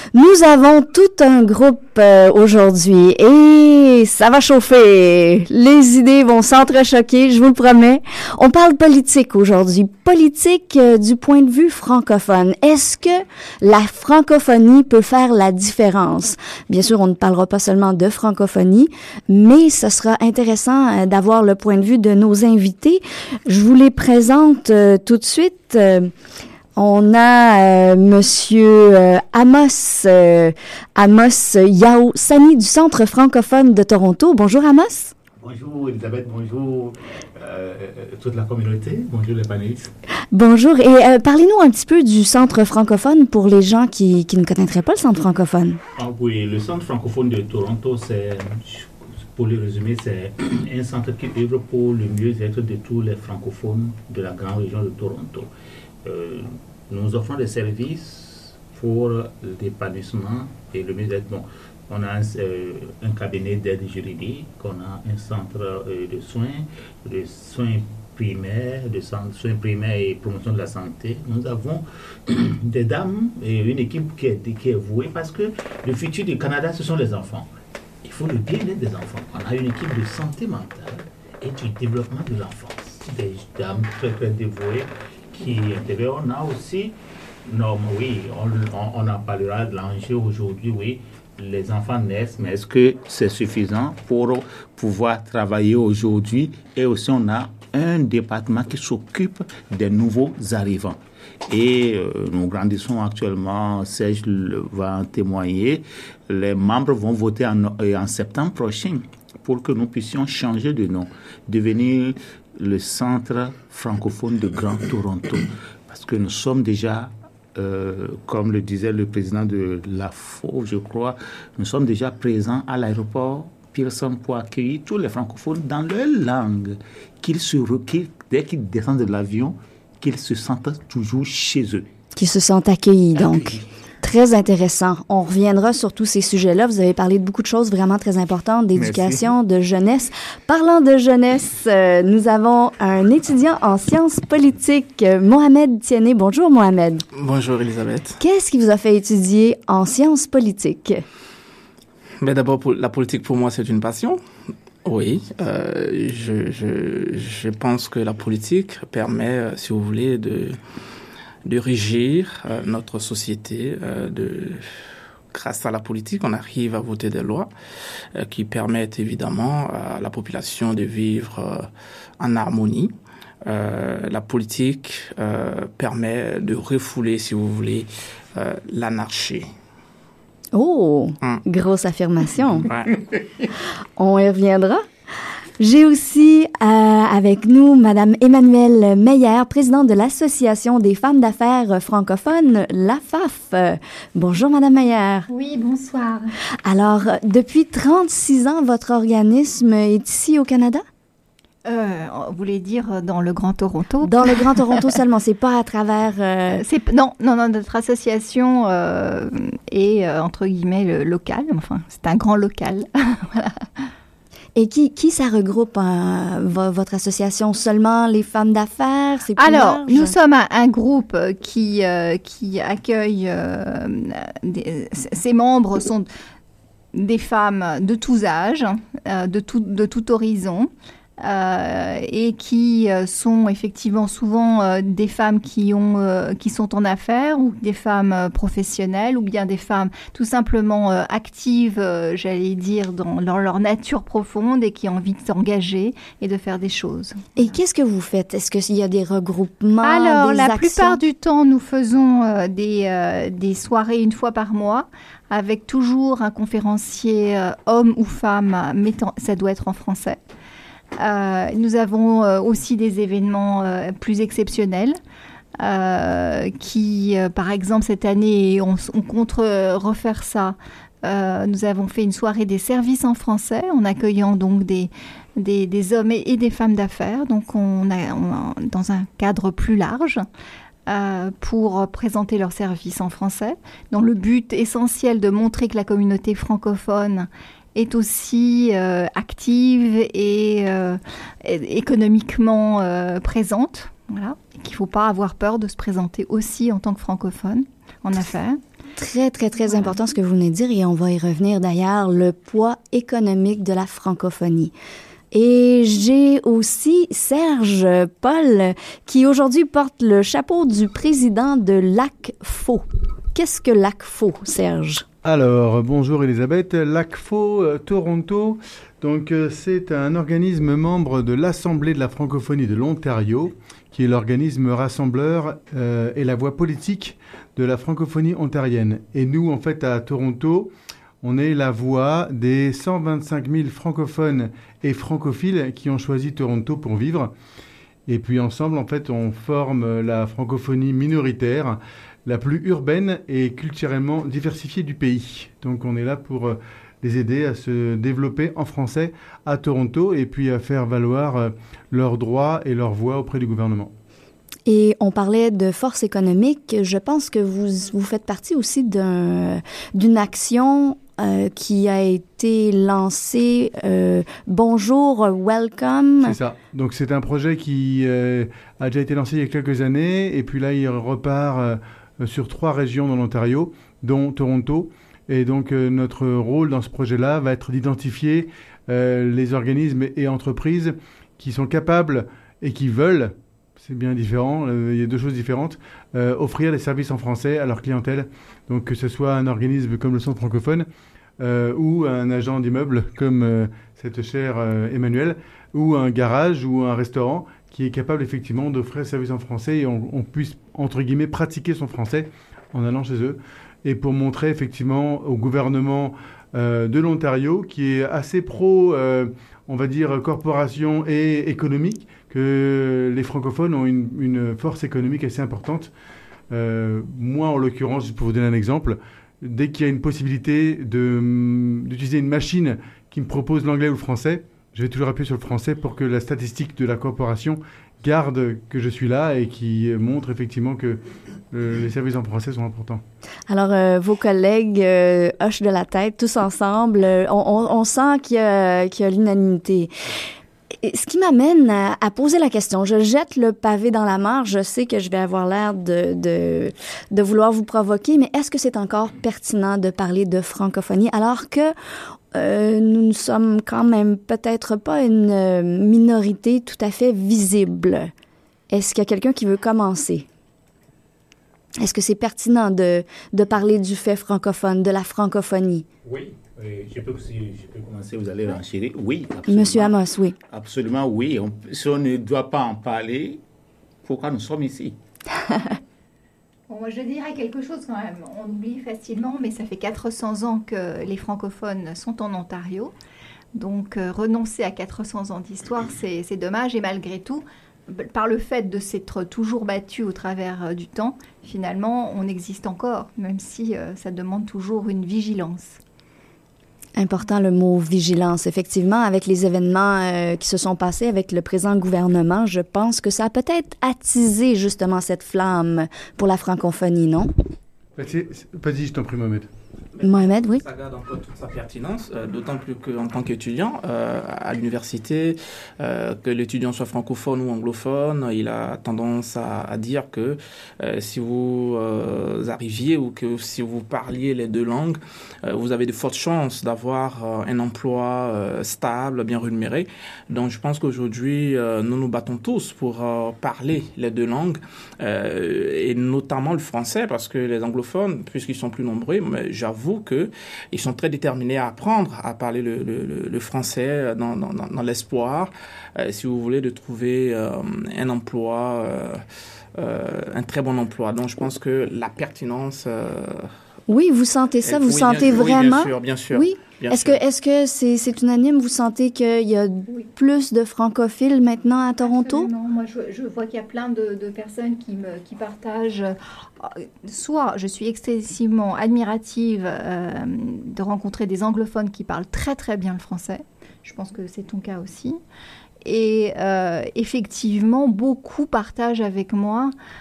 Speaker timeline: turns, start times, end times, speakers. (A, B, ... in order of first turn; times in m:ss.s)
0:00.1-0:26.1 A
0:26.8-0:35.1 A
0:35.4-0:39.9 B
0:40.3-0:45.8 A
0:46.0-0:55.5 B
0:56.0-1:17.5 B
1:18.0-2:11.9 B
2:12.1-2:27.0 A
2:13.3-2:13.6 B
2:18.8-2:19.3 B
2:27.1-2:28.2 C
2:28.2-2:31.0 A
2:32.2-2:34.2 C
2:34.8-2:40.6 C
2:41.4-2:44.7 C
2:45.3-2:47.5 C
2:48.1-2:51.7 C
2:52.2-2:52.9 C
2:53.4-2:59.5 C
3:00.5-3:02.7 A
3:02.6-3:03.0 C
3:04.0-3:04.9 A
3:05.6-3:15.3 A
3:15.3-3:16.3 D
3:16.6-3:20.8 A
3:21.6-3:24.8 D
3:24.0-3:26.6 A
3:26.5-3:33.9 D
3:34.6-3:40.1 A
3:39.4-3:46.1 D
3:46.9-4:07.2 D
4:07.4-4:11.0 A
4:09.8-4:20.2 D
4:20.9-4:25.0 D
4:25.6-4:40.2 D
4:40.9-4:58.6 D
4:59.0-5:04.7 A
5:05.3-5:15.1 A
5:15.2-5:30.7 E
5:31.2-5:37.3 E
5:38.1-5:53.9 E
5:54.7-6:06.4 A
6:06.2-6:30.9 E
6:31.4-6:55.9 E
6:56.5-7:11.0 E
7:11.5-7:13.0 E
7:13.5-7:19.9 A
7:20.8-7:31.7 A
7:32.3-7:38.1 A
7:38.7-7:40.2 A
7:41.8-7:45.9 A
7:46.0-7:50.0 B
7:49.5-7:50.4 A
7:50.5-7:53.4 B
7:54.0-7:55.0 B
7:56.7-8:02.9 D
8:03.6-8:15.8 D
8:17.0-8:27.3 A
8:28.0-8:29.5 E
8:30.0-9:09.2 C
8:30.0-8:30.6 A
9:09.8-9:13.5 C
9:13.9-9:22.5 A
9:14.6-9:17.2 C
9:22.0-9:35.2 D
9:35.8-9:39.7 D